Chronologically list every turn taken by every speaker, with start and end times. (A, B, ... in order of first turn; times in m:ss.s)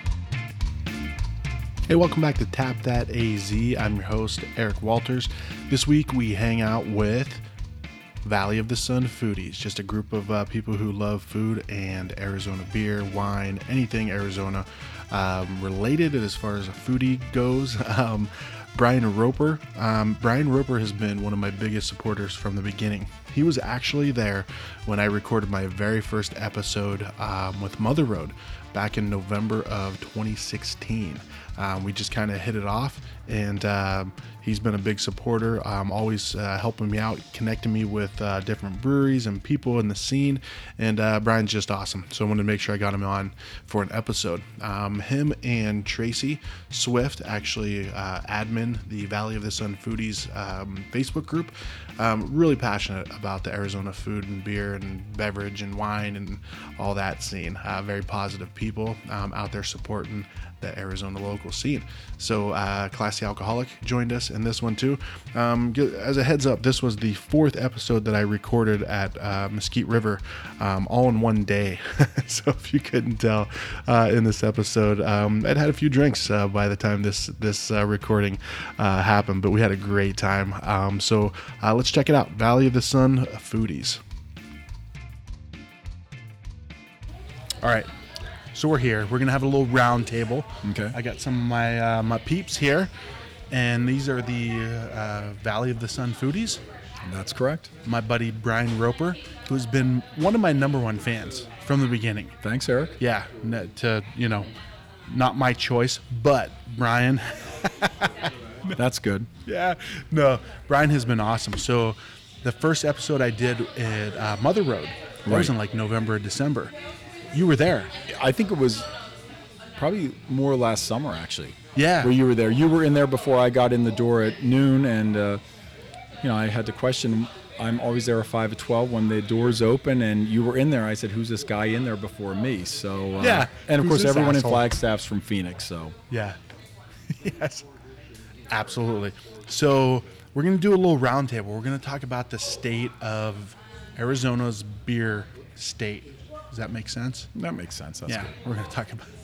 0:01.9-0:07.4 A
0:08.2-1:24.0 A
1:27.6-1:27.9 A
1:28.5-1:32.9 A
1:30.6-1:31.0 B
1:33.5-1:36.6 A
1:37.0-1:37.7 B
1:37.8-1:42.4 A
1:42.4-1:43.0 B
1:43.0-1:44.5 A
1:45.1-1:48.8 A
1:48.8-1:49.3 B
1:49.5-1:56.7 A
1:55.2-1:55.5 B
1:57.3-1:57.9 A
1:58.1-1:58.9 B
1:59.8-2:05.4 B
2:01.8-2:02.1 A
2:06.2-2:16.0 B
2:13.2-2:14.7 A
2:16.1-2:16.4 A
2:17.1-2:17.6 A
2:18.5-2:27.3 A
2:27.3-2:28.3 B
2:28.1-2:29.1 A